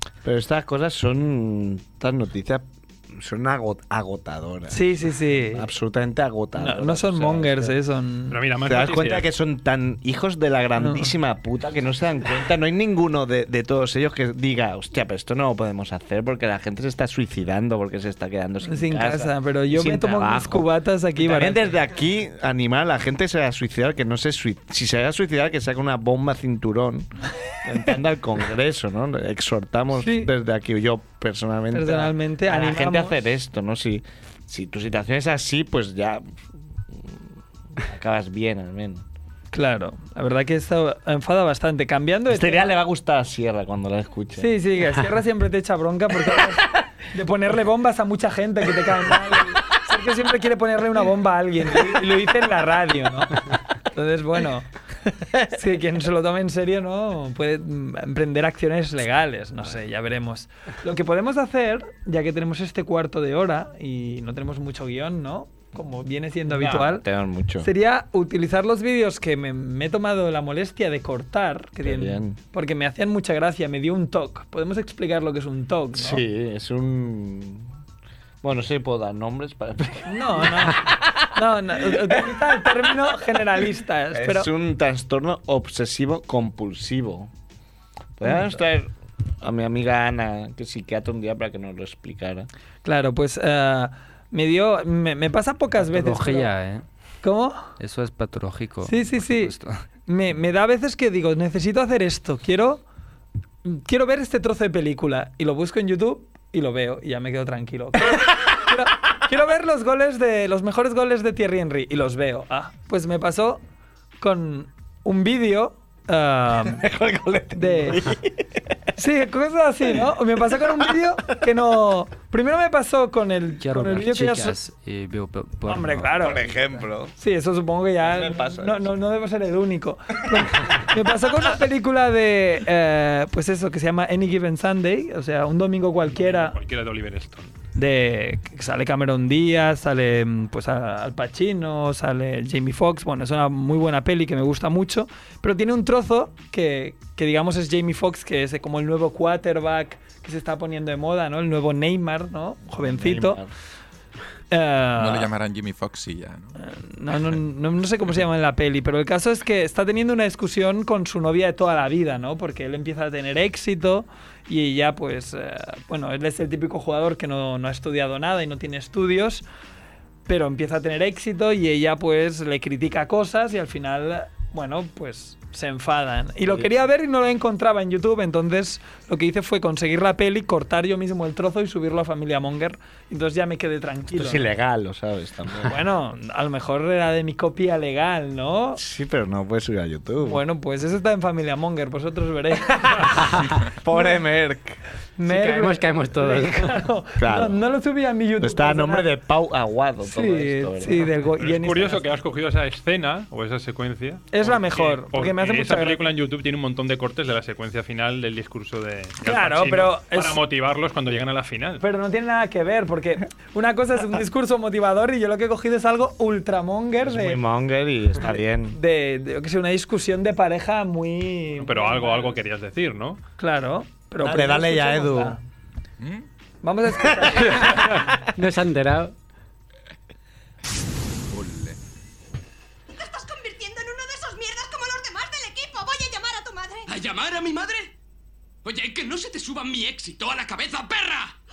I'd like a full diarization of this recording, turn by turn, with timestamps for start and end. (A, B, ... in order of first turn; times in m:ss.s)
0:00.2-0:07.8 A
0:04.7-0:05.7 B
0:06.6-0:08.4 B
0:08.3-0:09.3 C
0:08.6-0:27.1 A
0:10.8-0:11.1 B
0:18.6-0:21.7 B
0:27.6-0:36.4 A
0:30.0-0:30.3 B
0:31.7-0:33.2 B
0:36.9-0:37.2 A
0:37.8-0:39.0 A
0:39.5-0:42.7 B
0:42.3-0:44.5 A
0:44.4-0:54.7 B
0:55.5-1:07.0 B
1:06.5-1:07.7 A
1:07.6-1:16.2 B
1:11.8-1:12.4 A
1:16.0-1:17.7 A
1:18.4-1:23.2 A
1:20.1-1:24.5 B
1:24.1-1:27.3 A
1:28.2-1:28.9 A
1:28.2-1:28.6 B
1:29.4-1:32.5 A
1:32.8-1:36.5 B
1:35.8-1:36.8 D
1:37.2-1:37.7 B
1:37.8-1:39.8 D
1:38.8-1:39.5 B
1:40.1-1:42.8 B
1:43.6-1:53.6 B
1:54.2-1:56.8 B
1:56.6-1:58.4 A
1:57.6-1:58.1 B
1:59.0-2:04.6 B
2:03.6-2:06.3 D
2:05.7-2:06.4 B
2:06.2-2:07.1 A
2:07.2-2:16.6 B
2:08.0-2:08.9 A
2:10.4-2:10.9 A
2:16.2-2:17.5 C
2:17.8-2:33.4 B
2:32.7-2:33.5 A
2:34.5-2:35.3 B
2:35.0-2:36.6 E
2:36.6-2:49.4 B
2:50.3-3:04.5 B
3:04.1-3:05.8 A
3:05.6-3:08.8 B
3:08.8-3:10.4 A
3:10.2-3:13.3 B
3:12.8-3:14.8 A
3:15.2-3:19.1 B
3:15.3-3:16.8 F
3:17.2-3:17.6 A
3:18.4-3:21.1 A
3:20.1-3:22.0 B
3:21.4-3:31.8 C
3:24.3-3:26.0 B
3:29.2-3:30.4 B
3:31.8-3:37.4 B
3:37.0-3:38.8 A
3:38.7-3:42.4 B
3:41.6-3:43.2 C
3:43.4-3:45.4 B
3:44.2-3:45.4 A
3:46.0-3:46.3 E
3:46.6-3:48.1 B
3:47.2-3:48.0 A
3:48.4-3:49.1 F
3:51.3-3:51.8 E
3:52.9-3:56.9 G
3:56.9-3:57.9 H
3:58.6-4:01.3 H